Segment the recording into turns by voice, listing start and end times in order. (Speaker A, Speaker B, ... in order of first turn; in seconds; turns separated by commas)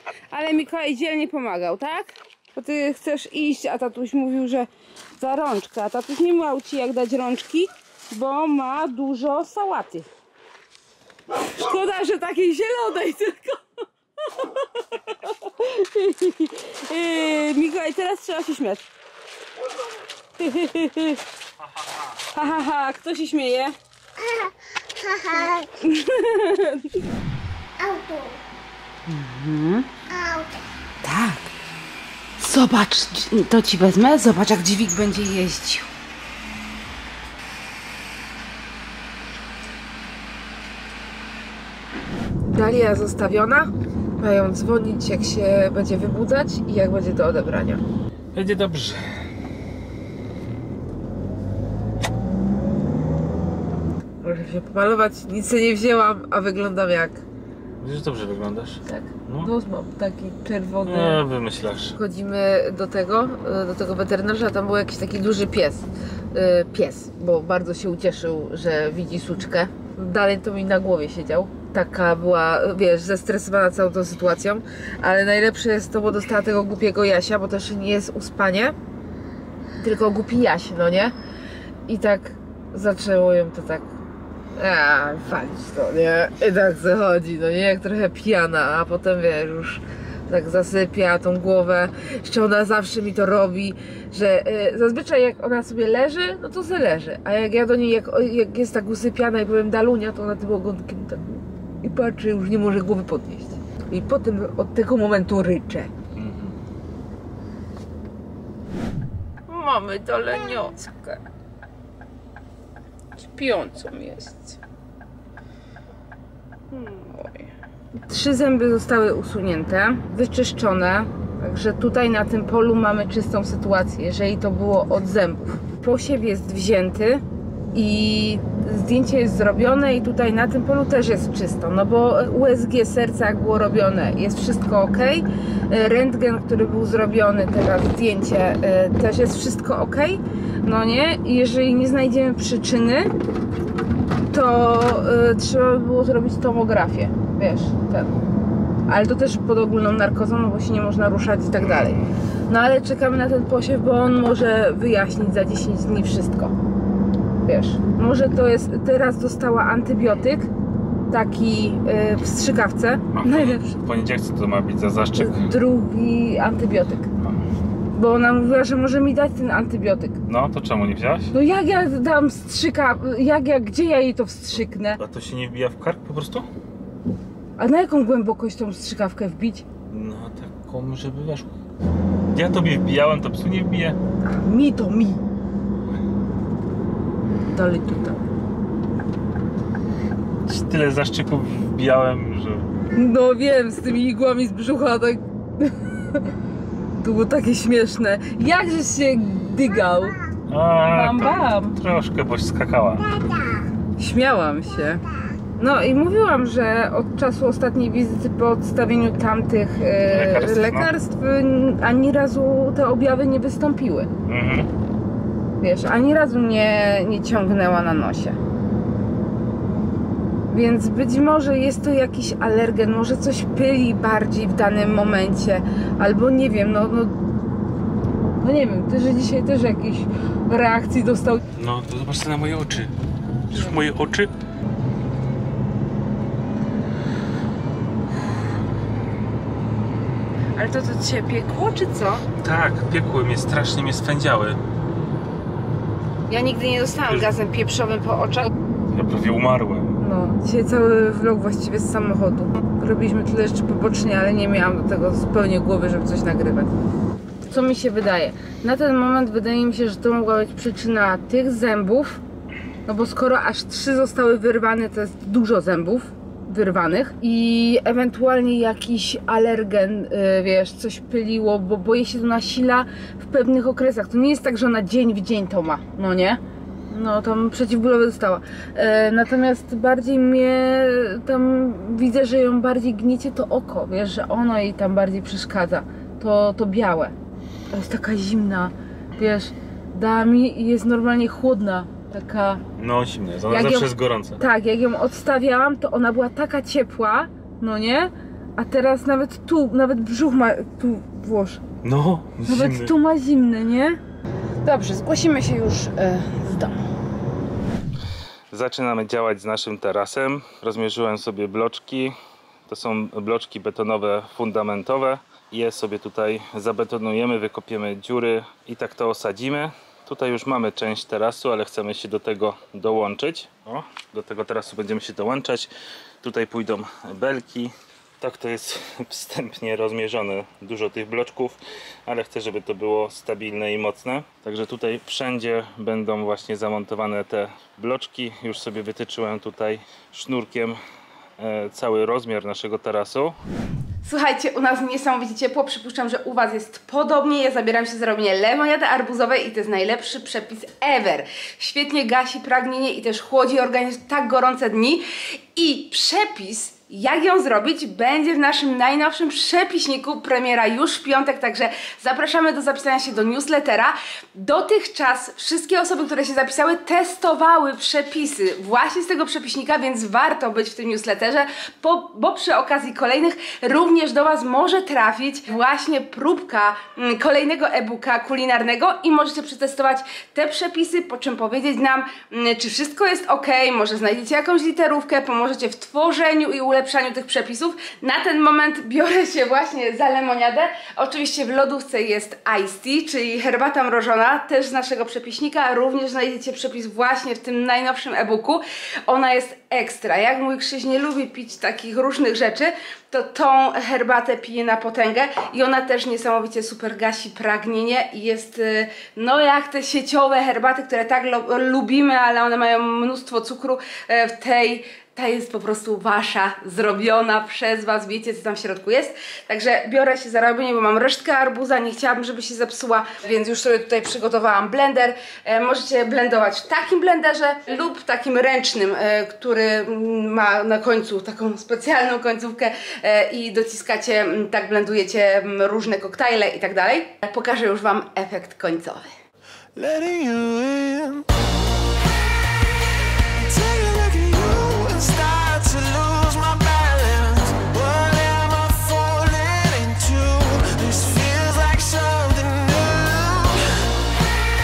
Speaker A: 0.3-10.1, Speaker A: 11.3-13.6, Speaker A: 14.2-18.8, Speaker A: 20.4-21.2, Speaker B: 21.8-22.1, Speaker A: 22.3-23.8, Speaker A: 25.1-27.1, Speaker A: 29.1-29.9, Speaker A: 31.0-31.5, Speaker A: 32.4-35.9, Speaker A: 42.4-47.8, Speaker B: 48.3-49.1, Speaker A: 54.2-57.2, Speaker B: 57.8-59.5, Speaker A: 58.8-61.2, Speaker B: 60.8-62.0, Speaker A: 61.9-78.8, Speaker A: 79.8-81.1, Speaker A: 81.9-83.9, Speaker A: 84.5-105.9, Speaker B: 106.2-106.6, Speaker A: 109.5-111.2, Speaker A: 113.2-114.6, Speaker A: 116.7-117.5, Speaker A: 118.1-127.2, Speaker A: 127.7-143.1, Speaker A: 144.3-148.1, Speaker A: 148.9-156.6, Speaker B: 151.6-152.1, Speaker A: 157.4-160.5, Speaker A: 161.1-163.6, Speaker B: 163.1-165.5, Speaker A: 165.2-167.1, Speaker A: 167.9-170.2, Speaker B: 170.3-171.3, Speaker A: 171.3-175.0, Speaker B: 175.0-176.5, Speaker A: 177.6-179.6, Speaker B: 179.9-181.5, Speaker B: 182.3-184.0, Speaker A: 184.2-185.2, Speaker A: 187.4-188.2, Speaker B: 190.5-192.7, Speaker A: 192.9-196.3, Speaker A: 197.0-200.2, Speaker B: 200.5-203.1, Speaker A: 200.9-201.8, Speaker A: 204.0-205.0, Speaker A: 205.6-214.1, Speaker B: 210.1-210.9, Speaker B: 214.2-214.7, Speaker A: 215.6-218.4, Speaker A: 220.5-227.2, Speaker A: 228.4-231.4, Speaker B: 231.5-232.9, Speaker B: 233.5-234.3, Speaker A: 233.5-233.8, Speaker A: 240.6-242.2, Speaker B: 242.4-244.6, Speaker A: 246.3-248.5, Speaker B: 247.1-247.3, Speaker B: 248.9-250.0, Speaker A: 250.0-256.7, Speaker A: 257.5-262.2, Speaker A: 262.9-287.1, Speaker A: 287.7-292.6, Speaker B: 292.8-294.4, Speaker A: 293.5-301.6, Speaker B: 301.8-302.9, Speaker A: 302.5-304.0, Speaker A: 304.6-306.9, Speaker B: 308.5-312.1, Speaker B: 312.7-325.7, Speaker B: 326.2-340.8, Speaker B: 341.4-343.4, Speaker A: 344.0-439.1, Speaker C: 439.8-441.3, Speaker C: 443.3-453.9